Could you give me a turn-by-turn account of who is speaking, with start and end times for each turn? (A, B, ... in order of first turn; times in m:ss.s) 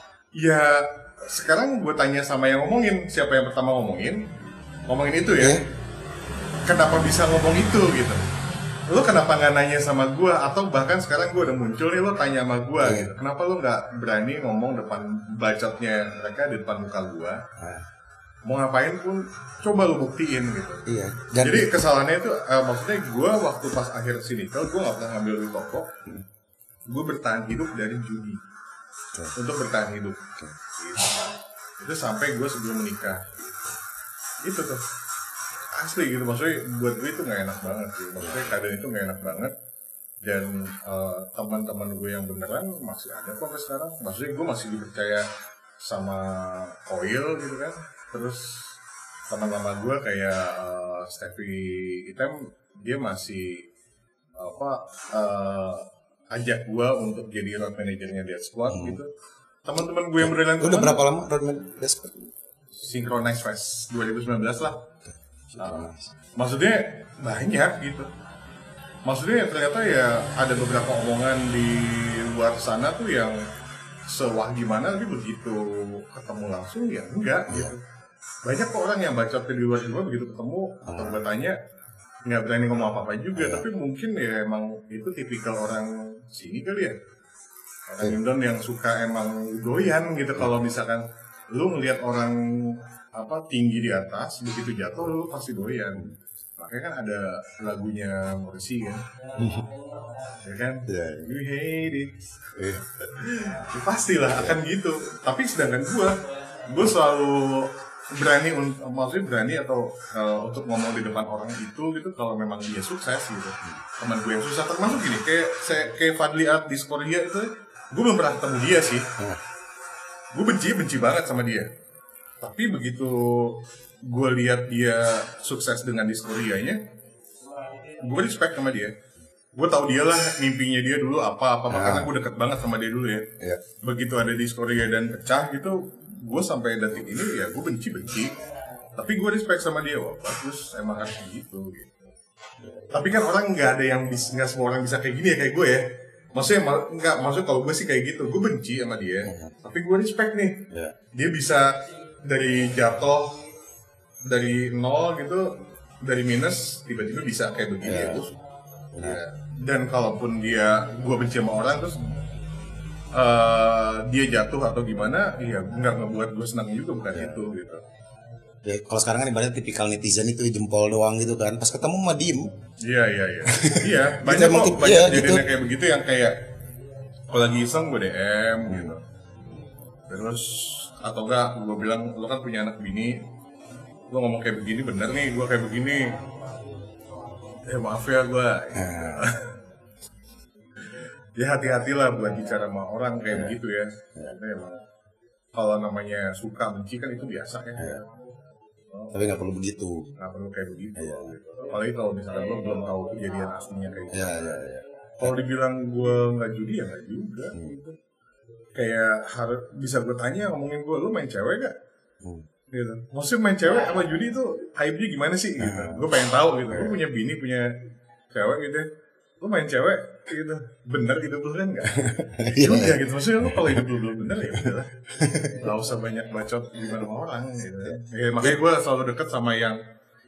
0:00.4-0:04.2 A
0:04.9-0:05.6 A
0:06.6-0:08.2 A
0:08.9-0:17.4 A
0:12.8-0:13.1 B
0:17.6-0:17.8 B
0:18.5-0:20.8 A
0:20.8-0:21.8 B
0:21.4-0:25.9 A
0:26.9-0:28.4 A
0:29.3-0:31.3 A
0:31.8-0:33.3 A
0:34.4-0:34.8 A
0:35.7-0:39.5 A
0:40.2-0:45.3 A
0:45.8-0:48.7 A
0:49.3-0:53.6 A
0:54.4-0:59.1 A
0:58.7-0:59.0 B
0:59.6-1:01.0 A
1:00.2-1:02.3 B
1:02.7-1:04.8 A
1:05.5-1:06.1 B
1:05.6-1:08.1 A
1:09.0-1:13.4 A
1:14.1-1:17.8 A
1:17.5-1:17.7 B
1:18.4-1:21.6 A
1:20.8-1:21.2 B
1:22.2-1:27.0 A
1:23.3-1:23.6 B
1:27.9-1:39.0 A
1:39.4-1:39.7 B
1:40.3-1:42.2 A
1:40.8-1:41.3 B
1:42.6-1:42.8 B
1:43.0-1:59.1 A
2:00.3-2:01.7 A
2:02.4-2:06.8 A
2:07.9-2:08.9 A
2:09.6-2:18.4 A
2:11.7-2:12.1 B
2:18.9-2:22.1 A
2:22.6-2:23.0 B
2:22.9-2:25.8 A
2:26.3-2:33.4 A
2:29.2-2:29.5 B
2:34.2-2:38.4 A
2:37.8-2:38.3 B
2:38.9-2:39.2 B
2:39.0-2:42.2 A
2:43.1-2:47.8 A
2:47.1-2:47.4 B
2:48.6-2:52.5 B
2:52.8-2:56.4 A
2:53.4-2:55.4 B
2:57.3-2:59.0 A
2:58.6-2:59.0 B
3:00.1-3:03.3 A
3:04.1-3:06.2 A
3:07.5-3:09.6 A
3:08.7-3:09.3 B
3:11.4-3:14.8 A
3:13.3-3:13.6 B
3:15.5-3:18.1 A
3:17.8-3:18.0 B
3:18.9-3:19.2 A
3:19.1-3:20.1 B
3:20.2-3:24.6 A
3:21.0-3:21.3 B
3:24.1-3:25.4 B
3:25.2-3:28.0 A
3:28.7-3:31.7 A
3:32.7-3:37.7 A
3:35.6-3:36.1 B
3:36.7-3:37.0 B
3:38.3-3:38.9 A
3:39.4-3:49.8 A
3:41.9-3:43.8 B
3:44.5-3:45.6 B
3:47.8-3:48.6 B